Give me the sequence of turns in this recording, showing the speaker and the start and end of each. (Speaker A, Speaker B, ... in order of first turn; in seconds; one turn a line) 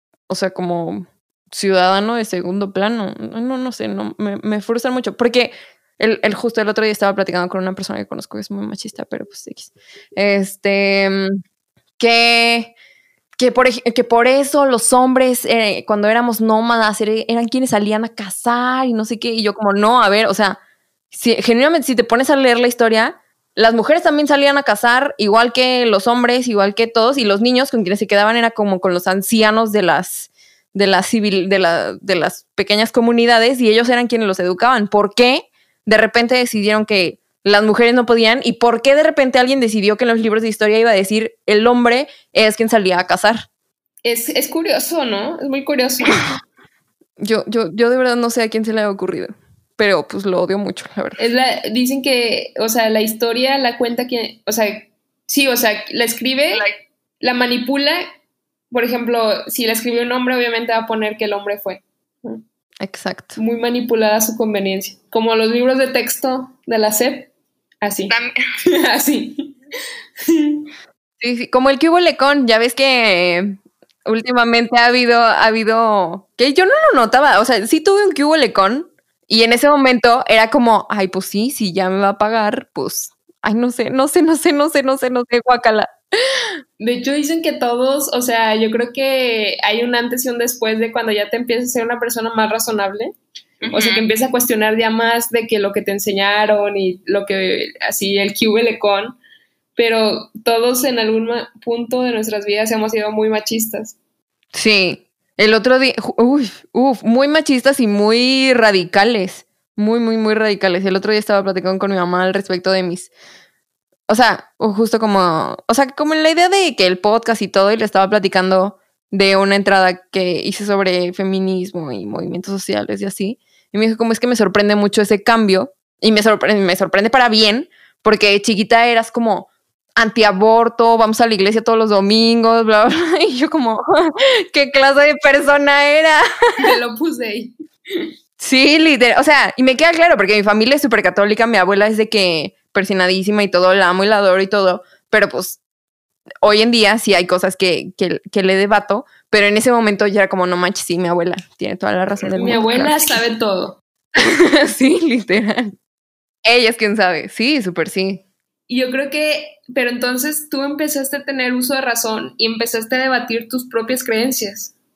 Speaker A: 0.3-11.4
Speaker A: 12.0-12.7
Speaker A: 13.4-20.6
Speaker A: 21.1-43.5
Speaker B: 44.0-46.2
Speaker A: 47.2-51.2
Speaker B: 51.2-56.6
Speaker A: 56.5-56.8
Speaker B: 57.2-58.0
Speaker B: 58.7-62.4
Speaker A: 62.8-63.4
Speaker B: 63.4-67.3
Speaker B: 67.8-69.5
Speaker A: 68.1-68.4
Speaker B: 70.2-70.7
Speaker A: 71.2-86.6
Speaker B: 86.8-93.2
Speaker A: 93.6-94.0
Speaker B: 93.7-99.2
Speaker B: 99.8-104.0
Speaker A: 104.5-113.1
Speaker A: 114.1-136.3
Speaker B: 136.6-138.1
Speaker A: 138.4-145.6
Speaker A: 146.4-153.2
Speaker B: 152.2-153.8
Speaker A: 154.2-155.7
Speaker A: 156.4-158.2
Speaker B: 158.7-164.7